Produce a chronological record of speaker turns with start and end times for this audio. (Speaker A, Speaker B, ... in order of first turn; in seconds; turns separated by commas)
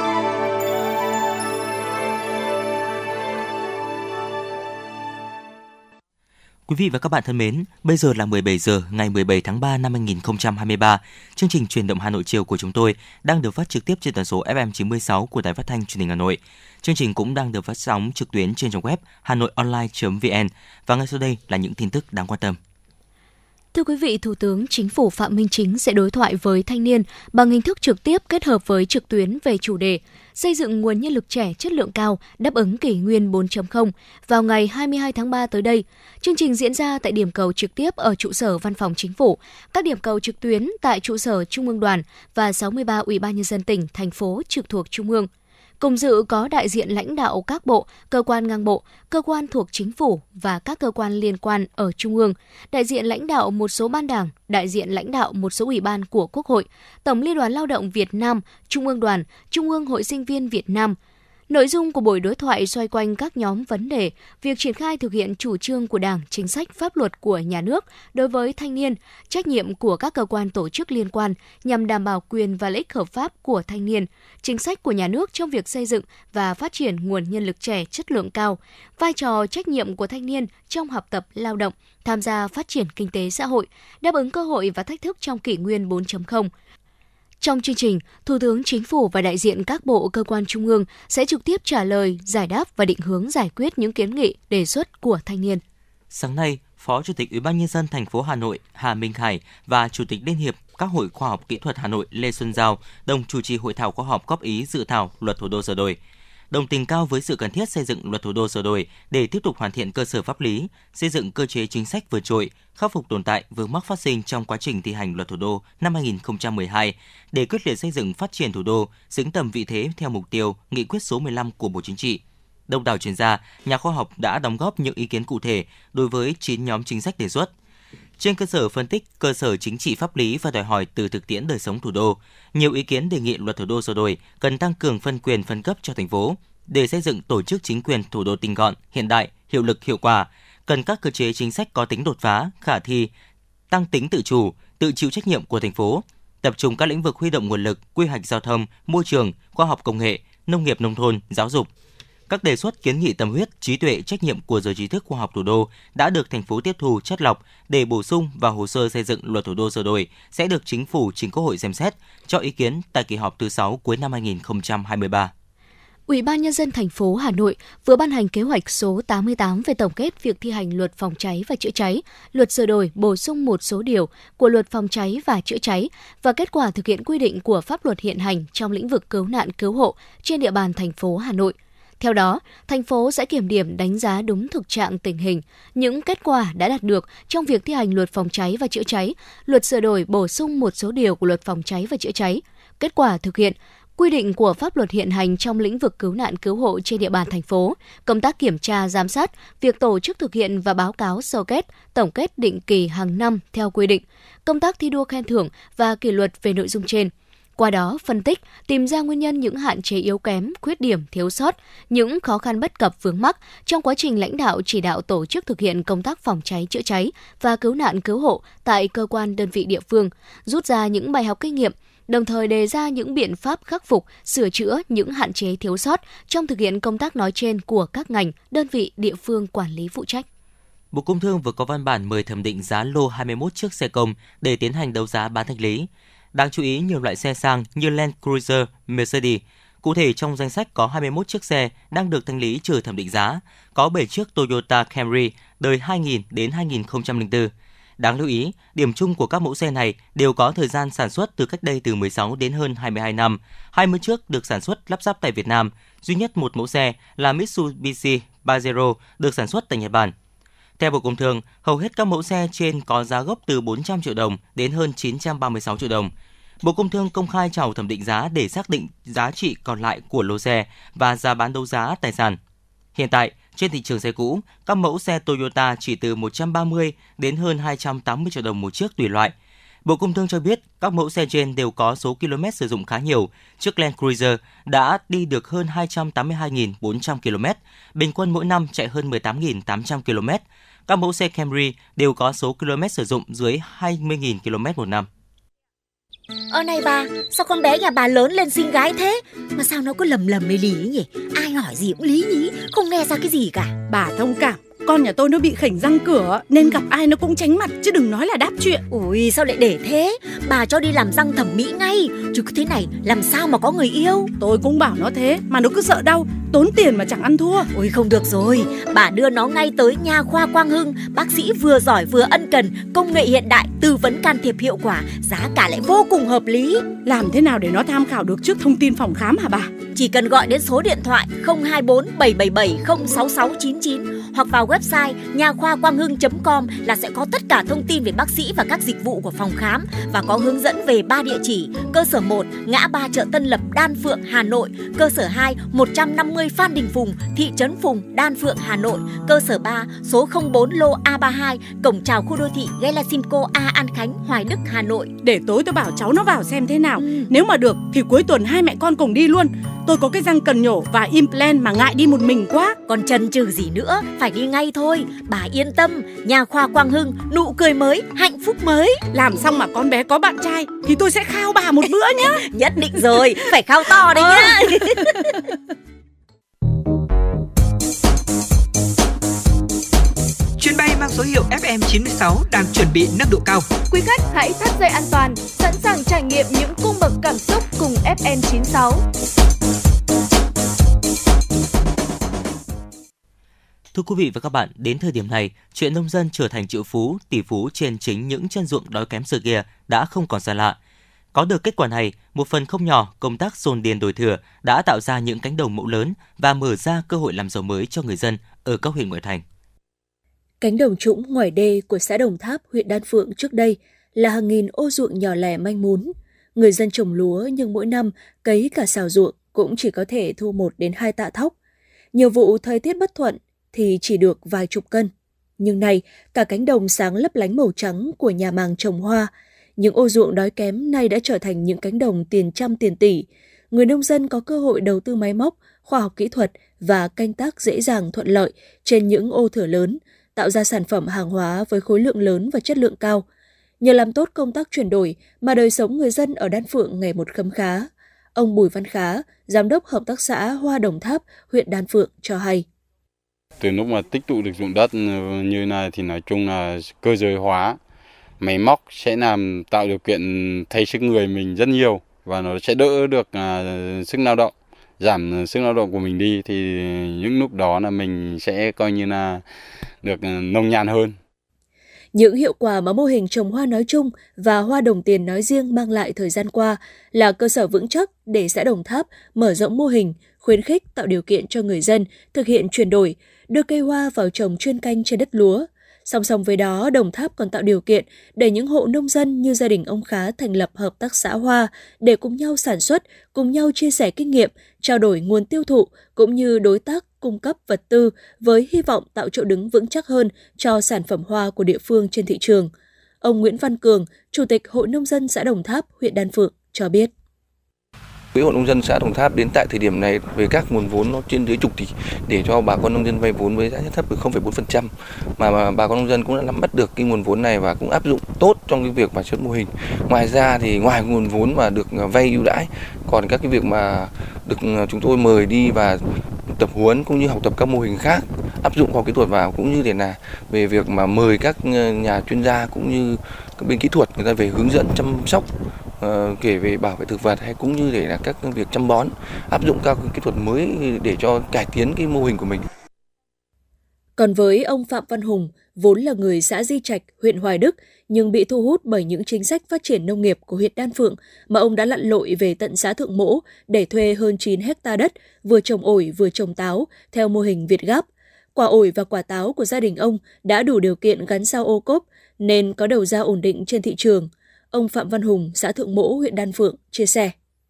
Speaker A: 6.7-22.6, Speaker B: 23.7-45.3, Speaker B: 45.8-61.0, Speaker B: 61.5-86.5, Speaker B: 87.4-95.6, Speaker A: 96.1-106.0, Speaker A: 106.5-127.5, Speaker A: 128.2-143.1, Speaker A: 143.7-151.7, Speaker A: 152.3-165.3, Speaker B: 166.1-230.2, Speaker A: 230.9-260.1, Speaker A: 260.8-272.4, Speaker A: 272.9-279.3, Speaker A: 279.9-295.1, Speaker C: 296.5-303.8, Speaker D: 303.9-308.8, Speaker C: 308.9-314.3, Speaker D: 314.4-317.7, Speaker C: 317.7-326.9, Speaker D: 327.0-329.7, Speaker C: 329.9-355.1, Speaker D: 355.2-362.8, Speaker C: 357.0-357.3, Speaker C: 362.9-369.0, Speaker D: 369.1-372.4, Speaker C: 372.4-375.3, Speaker D: 373.1-375.0, Speaker E: 380.6-383.7, Speaker F: 383.9-389.0, Speaker A: 393.9-400.8, Speaker A: 401.3-409.4, Speaker G: 410.6-421.5, Speaker G: 422.1-443.2, Speaker G: 443.8-452.7, Speaker H: 453.6-457.8, Speaker H: 458.4-469.4, Speaker H: 470.0-471.2, Speaker G: 472.1-507.1, Speaker I: 508.3-535.5, Speaker I: 536.0-542.7, Speaker G: 544.2-567.3